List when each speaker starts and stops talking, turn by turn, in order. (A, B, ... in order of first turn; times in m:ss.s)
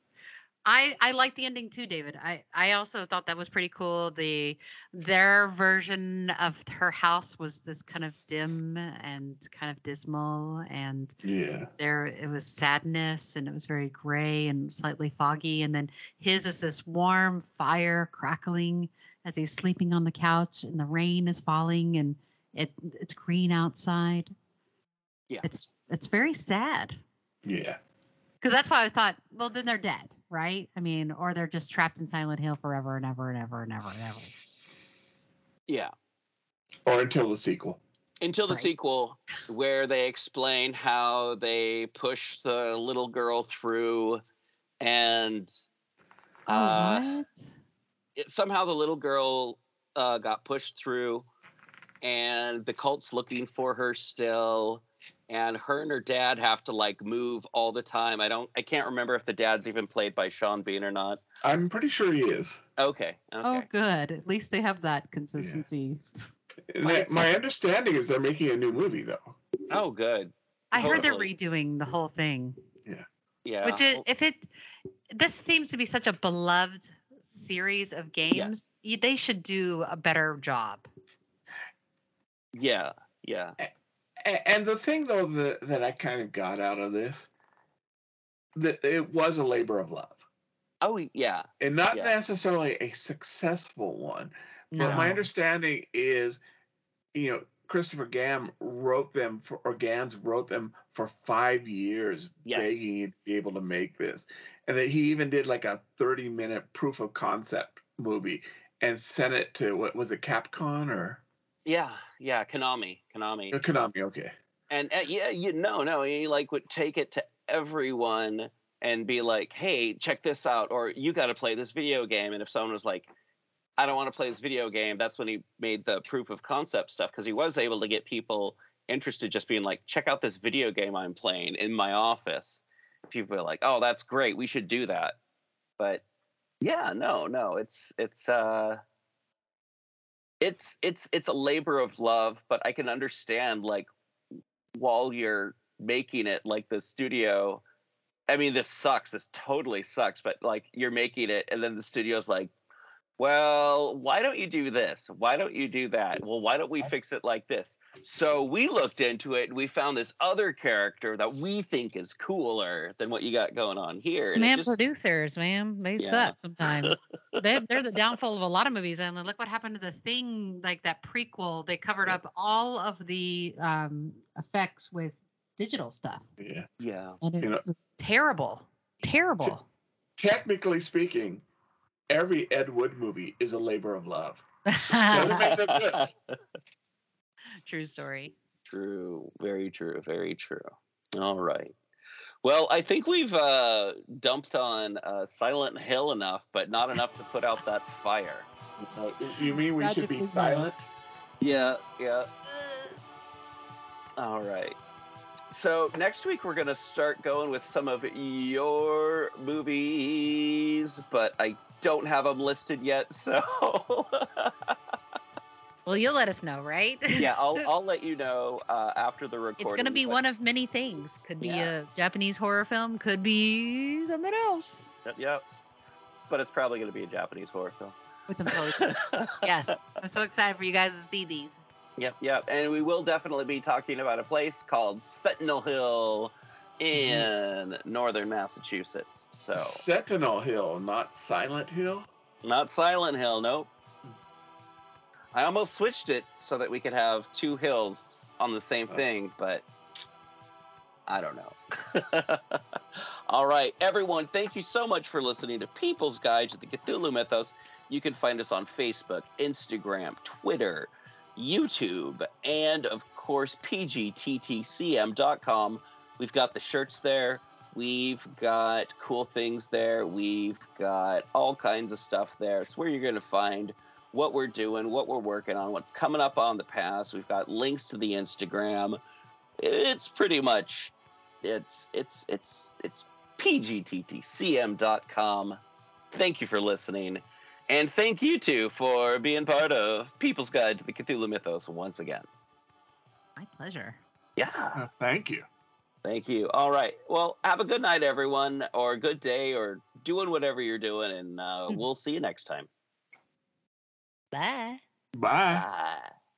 0:00.7-0:11.2 A
0:11.2-0:11.7 B
0:11.8-0:24.3 A
0:25.4-0:27.0 A
0:27.4-0:27.8 B
0:28.4-0:34.3 A
0:36.9-0:37.8 B
0:38.2-0:44.2 C
0:44.8-0:45.5 C
0:46.5-0:47.0 C
0:46.5-0:47.6 A
0:48.2-0:51.2 C
0:52.0-1:01.2 C
1:01.4-1:02.6 B
1:02.8-1:03.7 C
1:03.4-1:06.4 A
1:05.4-1:05.7 B
1:06.7-1:09.4 B
1:06.8-1:07.2 C
1:09.7-1:11.3 C
1:10.7-1:12.6 A
1:13.4-1:14.0 C
1:13.6-1:14.5 A
1:15.1-1:20.9 A
1:22.6-1:23.6 C
1:24.2-1:27.3 B
1:28.6-1:30.2 B
1:30.8-1:32.2 C
1:31.6-1:36.4 B
1:34.8-1:35.2 A
1:34.8-1:35.1 C
1:37.1-1:51.2 B
1:42.5-1:42.8 C
1:51.7-1:53.6 C
1:53.5-1:54.4 B
1:54.7-2:03.1 C
2:03.8-2:15.2 C
2:16.6-2:18.8 C
2:20.4-2:23.9 C
2:24.8-2:27.6 C
2:28.3-2:32.5 C
2:33.2-2:44.8 C
2:44.4-2:56.3 A
2:46.0-2:47.4 C
2:56.4-2:56.7 B
2:56.8-2:57.2 C
2:57.2-2:59.6 A
3:00.2-3:01.4 B
3:02.1-3:04.4 B
3:04.7-3:05.5 A
3:05.1-3:06.1 B
3:05.2-3:06.4 C
3:07.6-3:08.3 A
3:08.7-3:11.7 C
3:12.4-3:18.5 C
3:18.9-3:20.9 B
3:19.4-3:20.7 A
3:21.4-3:22.3 C
3:21.5-3:21.8 A
3:22.5-3:22.9 A
3:24.2-3:24.8 C
3:25.5-3:34.8 C
3:35.9-3:37.3 A
3:37.2-3:40.2 C
3:39.6-3:44.9 A
3:41.4-3:41.7 C
3:45.1-3:45.4 C
3:46.3-3:48.0 C
3:48.3-3:51.6 A
3:48.5-3:49.4 C
3:52.0-3:59.8 C
3:56.9-3:57.3 B
3:59.6-4:02.1 B
4:02.4-4:03.7 C
4:05.3-4:09.6 C
4:11.1-4:39.0 C
4:39.6-4:45.6 C
4:46.1-4:52.3 C
4:53.4-4:54.0 A
4:54.4-4:54.8 C
4:54.8-4:55.5 B
4:56.0-5:02.7 C
5:04.3-5:04.8 A
5:05.2-5:05.7 B
5:05.5-5:06.1 C